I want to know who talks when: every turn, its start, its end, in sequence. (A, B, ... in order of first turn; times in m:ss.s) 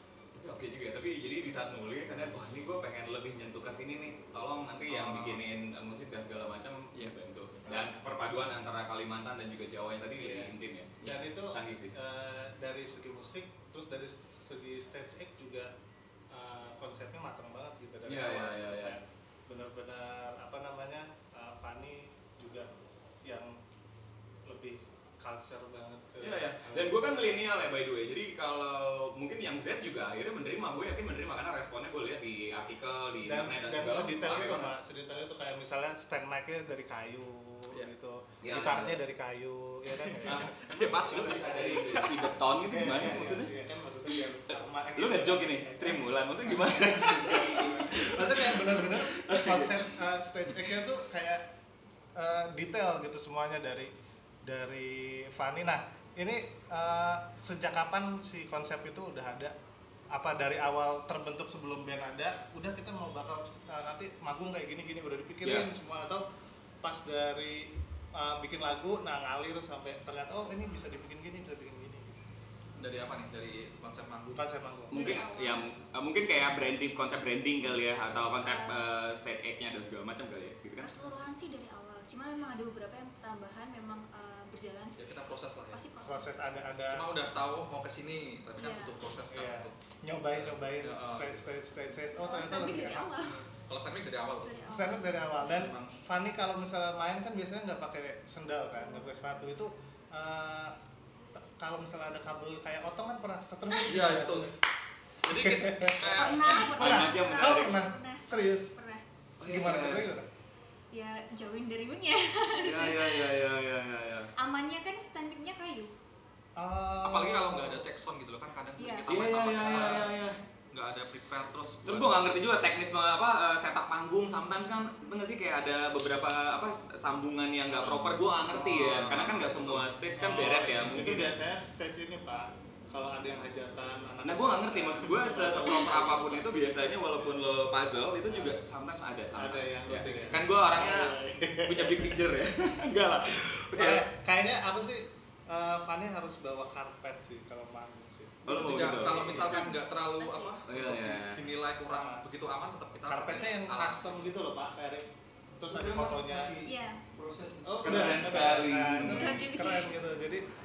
0:00.3-0:11.9 A
0:04.9-0:05.4 B
0:07.6-0:08.0 C
0:10.2-0:10.5 C
0:11.0-0:15.7 C
0:16.3-0:22.7 C
0:18.0-0:19.0 A
0:23.2-0:23.6 C
0:24.4-0:27.2 C
0:26.2-0:34.7 A
0:33.2-0:42.0 C
0:38.4-0:39.0 A
0:40.0-0:42.2 B
0:40.2-0:43.5 A
0:42.7-0:51.4 C
0:44.9-0:49.8 A
0:52.1-0:53.9 C
0:54.4-0:59.5 C
1:00.1-1:06.2 C
1:05.4-1:05.7 B
1:06.8-1:12.1 C
1:12.8-1:14.5 B
1:14.3-1:15.2 C
1:14.9-1:20.9 A
1:14.9-1:15.6 D
1:18.4-1:18.9 D
1:20.8-1:25.0 D
1:25.0-1:25.8 B
1:25.7-1:26.4 D
1:26.0-1:27.1 C
1:26.9-1:31.4 B
1:28.6-1:28.9 D
1:29.3-1:33.1 C
1:32.1-1:33.4 D
1:33.6-1:34.6 B
1:34.4-1:35.6 D
1:34.7-1:40.8 C
1:35.4-1:35.9 B
1:38.9-1:39.3 D
1:41.3-1:44.6 C
1:43.8-1:44.5 B
1:45.2-1:46.6 B
1:45.3-1:48.7 C
1:46.1-1:49.0 D
1:46.4-1:47.8 A
1:49.4-1:50.1 A
1:49.4-1:50.3 C
1:50.9-1:53.3 D
1:52.6-1:54.3 A
1:54.4-1:55.9 D
1:56.6-1:57.8 C
1:57.0-2:00.2 B
1:58.8-1:59.1 D
1:59.1-2:00.4 A
2:00.7-2:02.4 B
2:01.8-2:11.3 A
2:07.8-2:11.0 B
2:10.2-2:16.4 C
2:14.2-2:24.1 A
2:19.4-2:22.2 C
2:23.7-2:29.6 C
2:28.4-2:34.2 B
2:28.4-2:29.6 A
2:29.3-2:30.5 D
2:30.7-2:31.5 A
2:31.9-2:32.2 C
2:33.0-2:35.1 C
2:35.6-2:36.6 C
2:35.6-2:37.8 E
2:36.6-2:37.0 D
2:37.6-2:40.4 C
2:37.8-2:39.5 A
2:39.0-2:40.0 D